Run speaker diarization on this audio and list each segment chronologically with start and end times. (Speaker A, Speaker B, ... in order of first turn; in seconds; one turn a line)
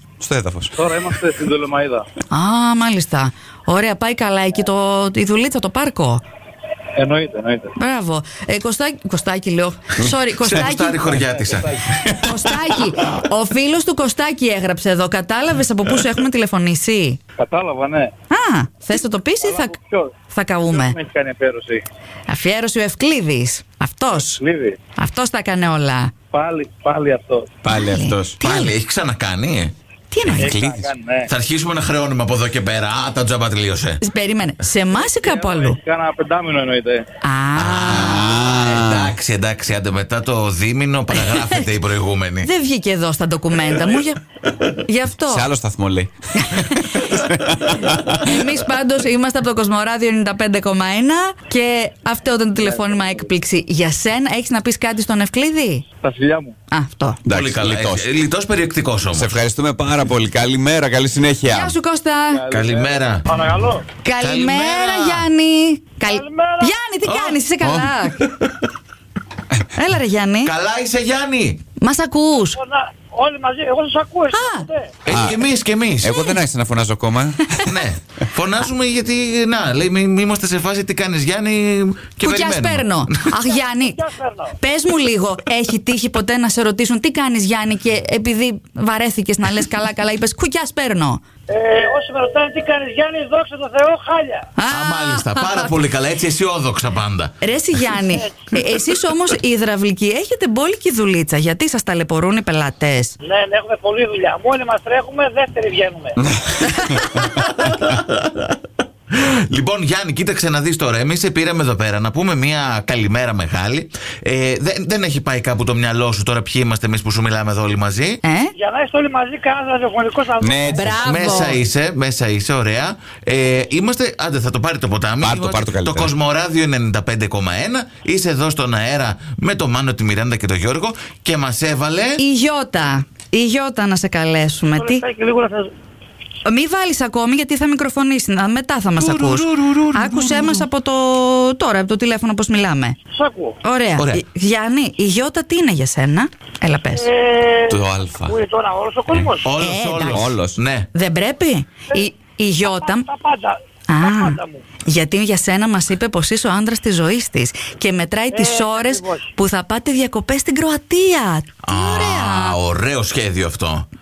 Speaker A: 0.2-0.8
Speaker B: 0.8-2.1
Speaker C: 2.3-6.2
Speaker B: 7.0-7.7
Speaker C: 7.8-11.1
Speaker D: 10.3-12.2
Speaker B: 11.1-11.8
Speaker C: 12.1-17.2
Speaker B: 17.4-18.1
Speaker C: 18.3-19.8
Speaker B: 19.4-20.1
Speaker C: 20.3-21.0
Speaker B: 20.7-21.8
Speaker C: 22.3-24.4
Speaker B: 24.1-24.8
Speaker C: 25.0-26.1
Speaker B: 26.3-27.5
Speaker A: 27.6-28.4
Speaker C: 27.7-28.7
Speaker D: 28.4-29.7
Speaker C: 30.1-30.5
Speaker A: 30.2-30.9
Speaker B: 30.3-31.3
Speaker D: 31.3-34.0
Speaker C: 34.0-35.8
Speaker B: 35.0-37.0
Speaker C: 37.2-38.4
Speaker D: 37.6-42.5
Speaker A: 37.9-39.1
Speaker C: 41.1-41.7
Speaker C: 42.4-44.2
Speaker C: 44.9-45.5
Speaker A: 45.2-48.4
Speaker C: 46.4-47.1
Speaker C: 48.1-55.8
Speaker B: 52.6-53.2
Speaker B: 56.0-56.5
Speaker C: 56.7-57.2
Speaker A: 57.2-58.1
Speaker D: 57.3-59.4
Speaker A: 59.1-61.8
Speaker C: 61.5-62.4
Speaker B: 62.3-63.1
Speaker D: 62.5-63.3
Speaker E: 63.3-63.9
Speaker C: 64.0-68.2
Speaker D: 64.2-65.3
Speaker E: 66.1-66.7
Speaker D: 67.0-67.4
Speaker A: 67.6-67.9
Speaker D: 68.2-68.6
Speaker C: 69.8-70.5
Speaker D: 70.4-71.6
Speaker C: 71.8-72.6
Speaker E: 72.5-74.9
Speaker C: 74.3-74.7
Speaker D: 75.0-76.2
Speaker A: 75.1-75.4
Speaker A: 76.0-77.6
Speaker C: 76.1-76.4
Speaker D: 77.7-83.3
Speaker C: 82.2-84.0
Speaker E: 83.8-84.5
Speaker C: 84.6-91.2
Speaker E: 91.5-94.5
Speaker C: 94.6-95.8
Speaker D: 94.7-97.9
Speaker C: 97.4-103.2
Speaker E: 98.0-98.4
Speaker E: 103.2-106.2
Speaker A: 106.3-107.0
Speaker C: 106.8-107.0
Speaker D: 107.1-108.6
Speaker D: 109.1-118.2
Speaker C: 118.2-118.5
Speaker E: 118.6-121.5
Speaker A: 120.4-121.0
Speaker C: 120.7-121.6
Speaker D: 121.0-132.2
Speaker A: 125.2-126.1
Speaker C: 132.2-135.0
Speaker E: 134.8-135.7
Speaker C: 136.4-143.0
Speaker D: 139.0-140.7
Speaker E: 143.1-143.6
Speaker C: 143.6-147.1
Speaker D: 144.0-144.2
Speaker E: 147.0-149.5
Speaker A: 147.7-148.4
Speaker D: 149.1-150.9
Speaker C: 149.6-150.3
Speaker A: 150.1-150.6
Speaker C: 150.9-153.1
Speaker E: 152.6-154.6
Speaker C: 153.9-162.6
Speaker E: 158.3-159.3
Speaker D: 161.6-163.9